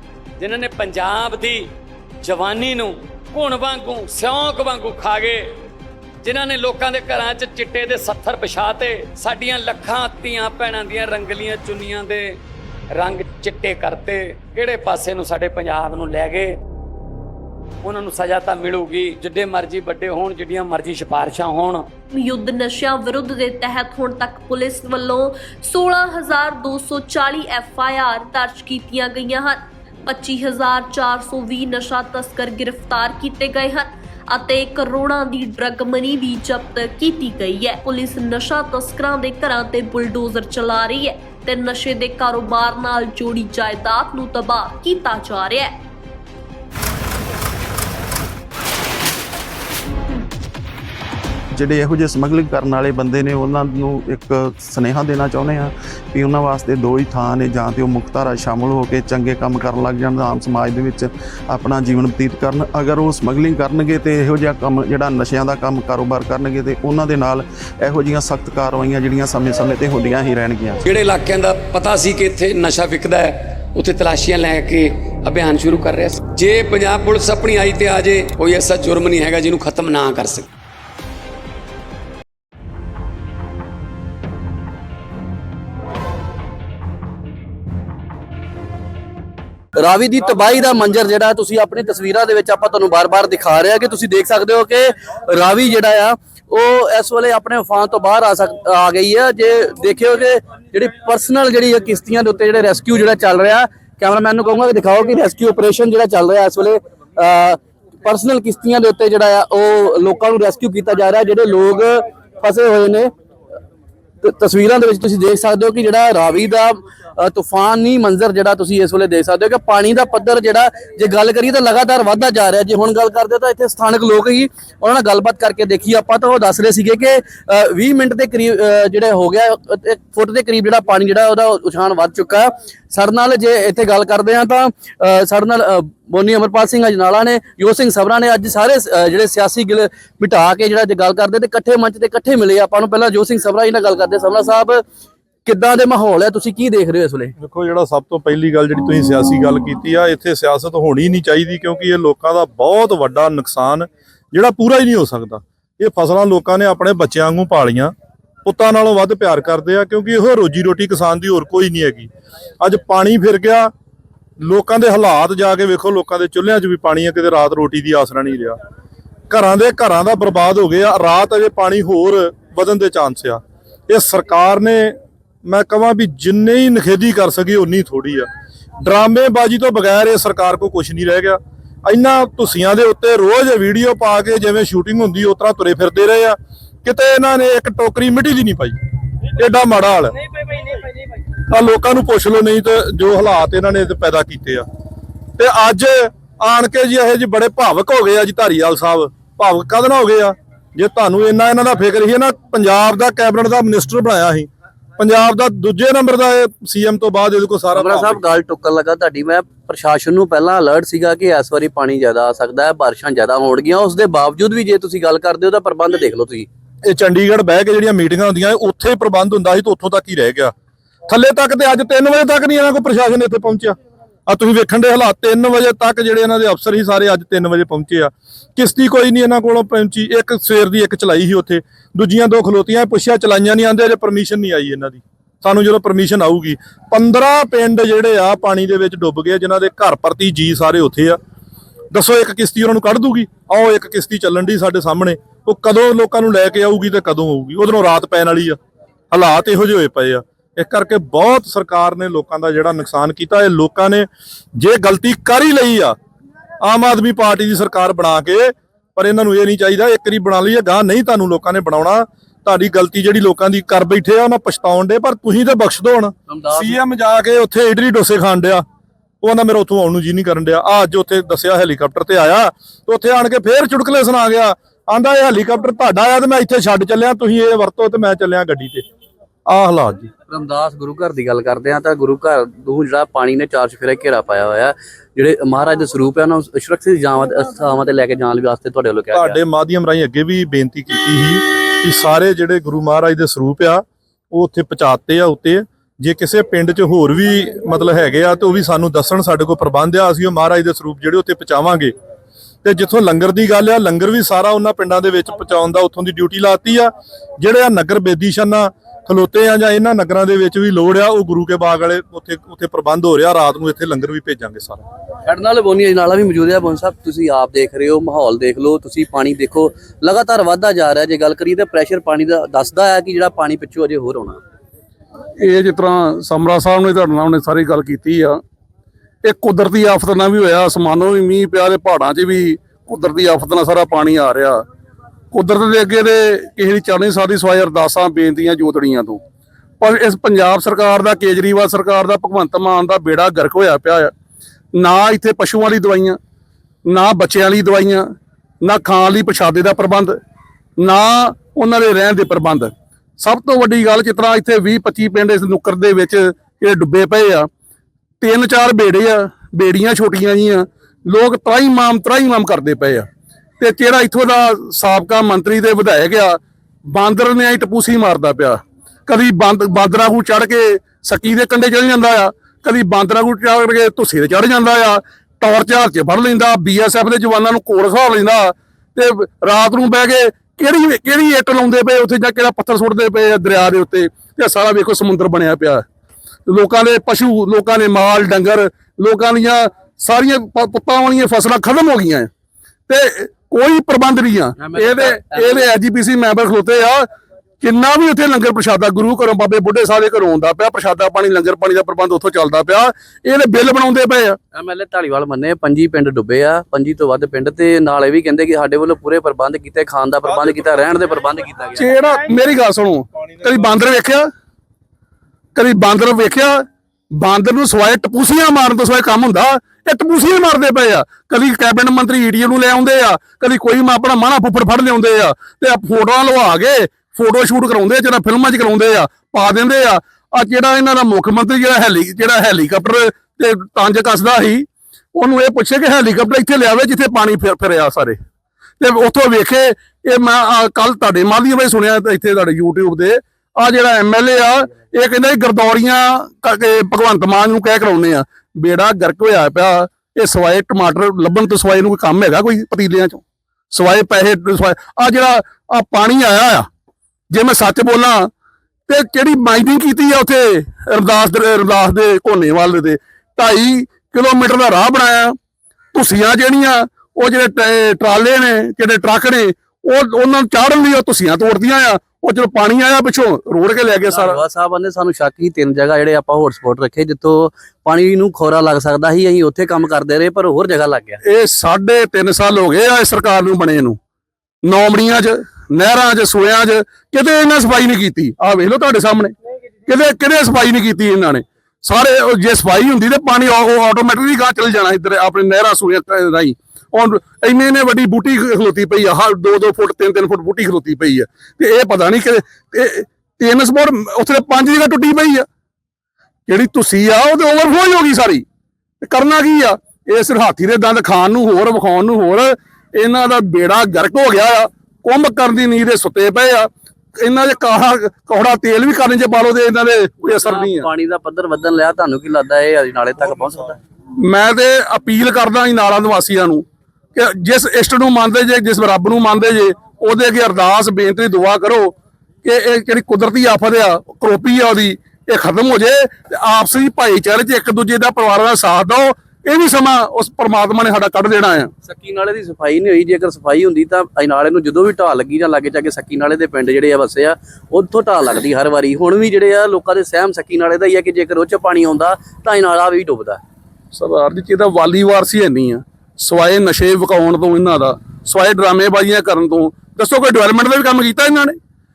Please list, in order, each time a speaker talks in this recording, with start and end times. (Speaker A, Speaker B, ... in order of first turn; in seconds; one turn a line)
Speaker A: 0.4-1.7
Speaker A: 2.2-5.5
Speaker A: 6.2-12.4
Speaker A: 12.9-16.6
Speaker A: 17.8-21.9
Speaker B: 22.1-45.8
Speaker C: 51.5-70.8
Speaker A: 70.8-80.5
Speaker D: 89.8-113.1
Speaker D: 114.2-144.8
Speaker D: 145.4-147.3
Speaker E: 147.4-157.9
Speaker E: 158.4-162.1
Speaker E: 162.6-163.7
Speaker E: 164.4-168.6
Speaker E: 169.3-178.3
Speaker E: 178.8-188.8
Speaker E: 189.4-190.1
Speaker E: 191.5-194.7
Speaker E: 195.4-208.2
Speaker D: 207.7-216.5
Speaker E: 216.8-220.5
Speaker E: 221.1-223.8
Speaker E: 224.3-241.2
Speaker E: 241.9-248.6
Speaker E: 249.1-255.9
Speaker E: 256.6-268.6
Speaker D: 266.3-266.8
Speaker E: 269.2-278.8
Speaker E: 279.5-280.1
Speaker D: 280.3-289.4
Speaker E: 289.1-301.9
Speaker E: 302.6-314.8
Speaker D: 315.2-324.4
Speaker F: 325.4-328.4
Speaker F: 329.2-334.6
Speaker F: 335.3-339.2
Speaker F: 339.8-344.1
Speaker F: 344.8-346.2
Speaker F: 346.9-348.1
Speaker F: 348.6-350.2
Speaker F: 350.8-357.5
Speaker F: 358.2-363.1
Speaker F: 363.6-385.8
Speaker F: 386.5-392.3
Speaker F: 392.9-397.0
Speaker D: 394.6-395.7
Speaker F: 397.6-404.4
Speaker D: 404.5-411.9
Speaker F: 411.8-414.3
Speaker F: 415.5-416.6
Speaker F: 417.1-438.2
Speaker F: 438.8-456.7
Speaker F: 457.3-458.3
Speaker F: 458.9-465.4
Speaker F: 465.9-474.4
Speaker D: 474.1-481.2
Speaker F: 481.2-484.0
Speaker F: 484.6-489.3
Speaker F: 489.9-505.4
Speaker F: 506.5-508.4
Speaker F: 509.0-516.7
Speaker F: 517.2-520.9
Speaker D: 520.4-523.8
Speaker F: 524.2-541.7
Speaker D: 541.8-553.4
Speaker F: 553.9-561.5